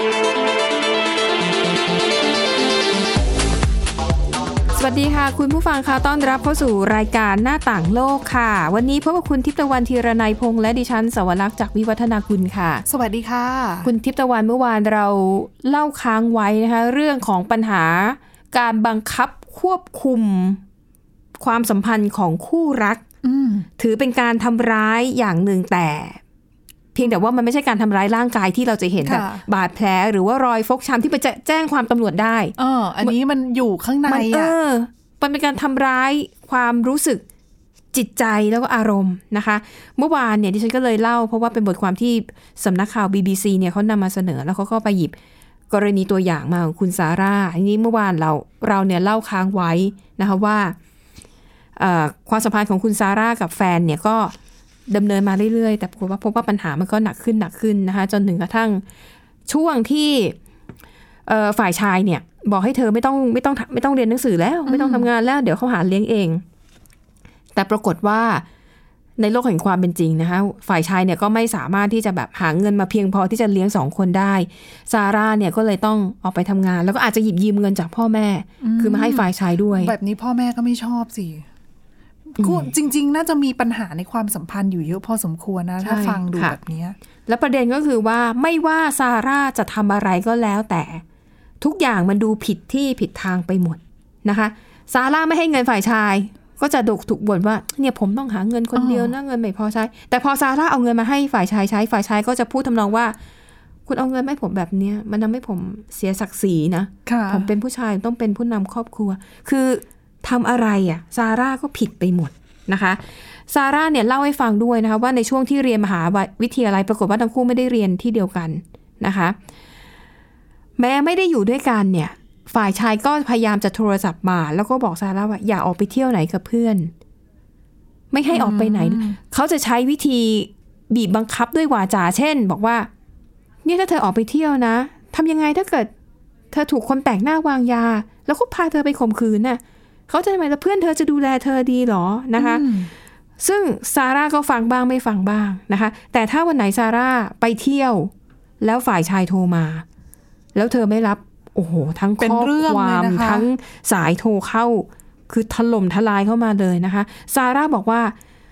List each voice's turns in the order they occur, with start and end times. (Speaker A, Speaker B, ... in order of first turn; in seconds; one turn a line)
Speaker A: 4.7-12.8
Speaker B: 12.9-13.9
Speaker A: 13.8-20.6
Speaker A: 21.4-23.0
Speaker B: 23.2-23.7
Speaker A: 23.8-26.2
Speaker A: 26.9-33.1
Speaker B: 29.0-29.4
Speaker B: 32.6-34.5
Speaker A: 34.1-37.2
Speaker A: 37.9-45.1
Speaker A: 45.7-50.8
Speaker A: 51.8-54.3
Speaker A: 54.9-58.8
Speaker A: 59.5-60.4
Speaker A: 61.2-66.4
Speaker B: 64.7-65.1
Speaker A: 67.5-68.4
Speaker A: 69.2-79.9
Speaker B: 78.6-81.5
Speaker B: 82.3-87.0
Speaker A: 82.4-82.7
Speaker A: 85.8-86.5
Speaker A: 87.3-91.0
Speaker A: 91.6-103.1
Speaker B: 98.7-99.1
Speaker A: 103.9-119.3
Speaker B: 107.0-107.5
Speaker A: 120.8-126.9
Speaker A: 128.1-132.9
Speaker B: 128.3-129.2
Speaker A: 133.6-135.9
Speaker A: 136.5-142.7
Speaker B: 142.3-142.9
Speaker A: 143.4-149.8
Speaker A: 150.5-158.1
Speaker B: 152.2-153.5